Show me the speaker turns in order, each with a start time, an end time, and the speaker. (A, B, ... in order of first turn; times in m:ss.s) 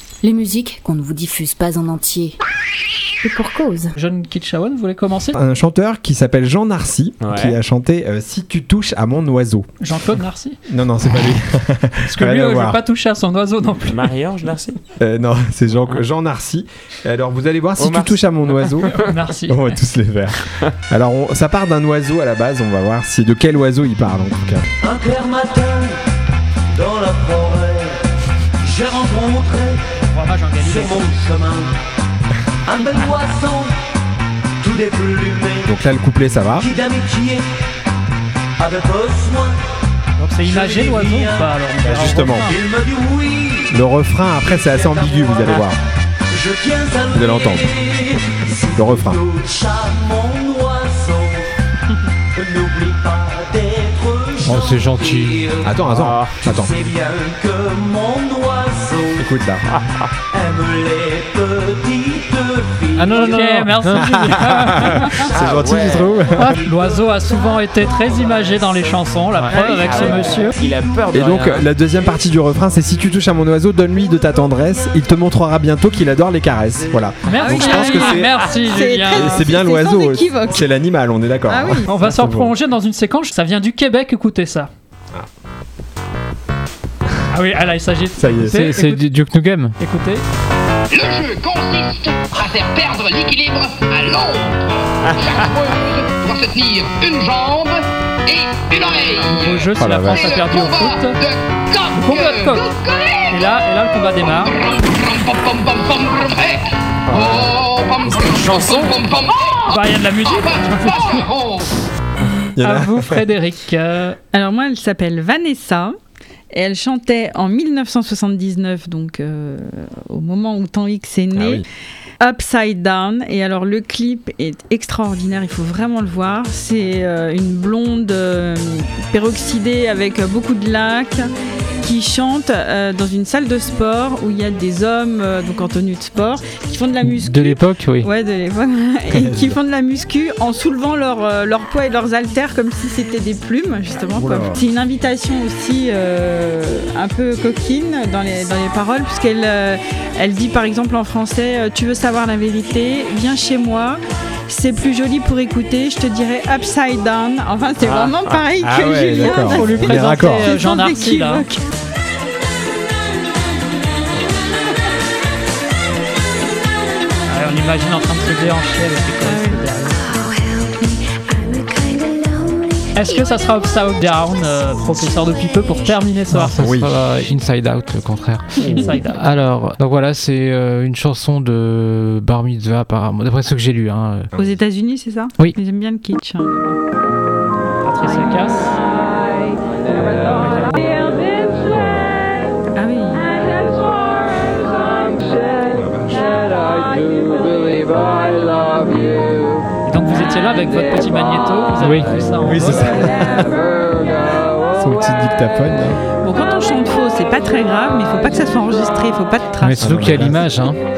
0:00.2-0:02.4 A
0:03.2-0:03.9 A
0:04.0-0:05.4 B
0:05.3-0:09.7 C
0:07.2-0:07.6 D
0:09.8-0:10.6 B
0:10.7-0:12.8 C
0:12.0-0:14.1 B
0:13.9-0:14.8 D
0:15.0-0:24.7 C
0:17.8-0:19.1 D
0:18.9-0:19.7 B
0:24.8-0:26.0 E
0:26.7-0:28.0 E
0:28.6-0:29.8 E
0:30.0-0:31.1 B
0:30.6-0:31.7 E
0:32.7-0:33.7 E
0:34.6-0:35.7 E
0:35.6-0:36.7 C
0:36.6-0:37.4 E
0:38.6-0:39.6 E
0:40.2-0:42.6 B
0:40.4-0:43.7 E
0:41.8-0:42.5 C
0:43.7-0:45.8 C
0:44.4-0:45.7 E
0:46.3-0:51.5 E
0:47.1-0:47.7 C
0:48.7-0:49.2 C
0:52.4-0:55.7 E
0:54.4-0:55.6 F
0:55.6-0:56.7 C
0:55.9-0:56.4 D
0:56.5-0:59.2 E
0:59.2-0:59.7 C
1:00.3-1:03.6 E
1:03.0-1:05.3 B
1:03.2-1:04.6 F
1:03.9-1:06.6 C
1:05.2-1:06.4 D
1:06.3-1:10.6 B
1:08.2-1:08.6 E
1:09.4-1:09.8 F
1:09.5-1:10.2 G
1:09.7-1:11.7 D
1:10.2-1:11.0 E
1:11.1-1:18.4 C
1:14.0-1:15.2 E
1:16.8-1:17.1 E
1:17.3-1:19.4 B
1:17.4-1:20.7 G
1:19.1-1:22.6 C
1:21.5-1:21.9 G
1:21.9-1:24.7 B
1:27.3-1:29.1 B
1:28.2-1:28.6 C
1:28.5-1:29.7 F
1:29.8-1:30.2 B
1:30.9-1:43.5 H
1:39.2-1:41.2 B
1:39.8-1:40.3 C
1:41.9-1:42.8 B
1:43.3-1:44.6 B
1:44.3-1:51.7 H
1:47.1-1:47.5 C
1:48.1-1:48.4 C
1:49.6-1:51.4 B
1:52.6-1:53.2 C
1:52.6-1:54.2 B
1:54.3-1:55.9 G
1:56.5-2:01.6 G
2:01.3-2:01.7 C
2:02.2-2:11.3 G
2:11.8-2:41.6 G
2:17.1-2:18.1 F
2:19.1-2:19.6 C
2:24.2-2:24.6 C
2:37.8-2:38.3 D
2:38.6-2:40.5 C
2:39.2-2:41.5 B
2:47.3-2:50.2 B
2:49.2-2:49.6 G
2:51.2-2:52.4 A
2:53.0-2:56.6 B
2:56.3-3:04.3 F
2:56.6-2:57.0 C
2:58.6-2:59.3 B
3:04.4-3:06.8 G
3:07.8-3:08.7 B
3:10.3-3:11.0 B
3:12.8-3:13.6 G
3:15.7-3:16.4 C
3:19.9-3:22.9 B
3:21.8-3:22.2 F
3:22.4-3:23.5 C
3:24.8-3:26.0 C
3:26.2-3:30.0 G
3:29.6-3:30.8 F
3:29.8-3:30.4 C